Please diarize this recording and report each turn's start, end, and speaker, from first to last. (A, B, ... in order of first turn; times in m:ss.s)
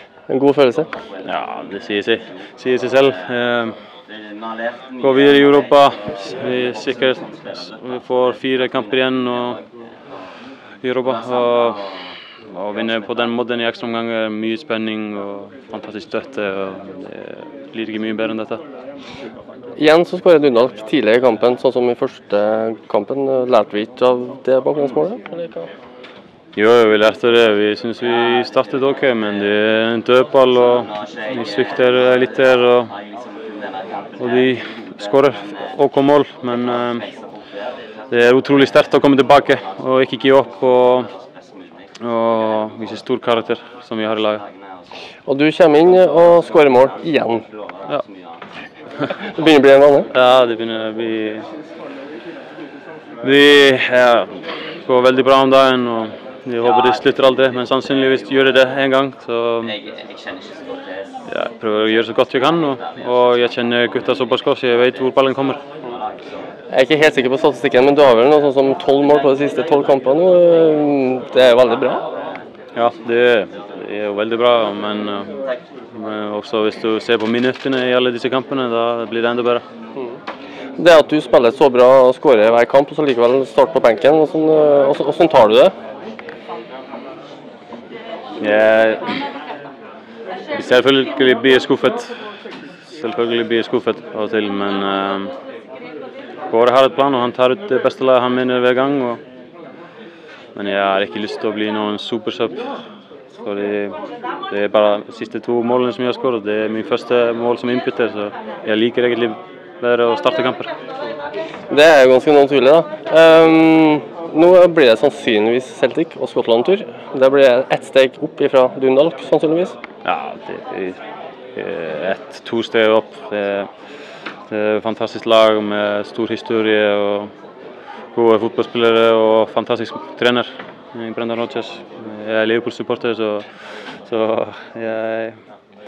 0:00.3-0:00.9 A
0:01.2-0:03.8 B
0:05.0-0:09.6 B
0:10.8-0:11.9 B
0:12.4-0:18.6 B
0:19.8-0:25.7 A
0:26.6-0:33.0 B
0:34.2-0:37.1 B
0:38.1-0:41.1 B
0:42.0-0:44.4 B
0:45.3-0:47.5 A
0:49.1-0:50.1 A
0:50.1-0:51.4 B
0:53.2-0:59.8 B
1:01.3-1:05.6 B
1:06.7-1:12.0 A
1:12.7-1:15.4 B
1:15.9-1:19.6 B
1:20.8-1:25.7 A
1:28.4-1:29.2 B
1:30.5-1:32.1 B
1:32.8-1:35.3 B
1:36.5-1:39.2 B
1:40.5-1:42.7 B
1:43.4-1:44.0 B
1:44.5-1:50.7 B
1:51.7-1:59.8 A
2:00.0-2:01.0 B
2:01.5-2:03.7 B
2:04.5-2:07.3 B
2:08.1-2:15.4 B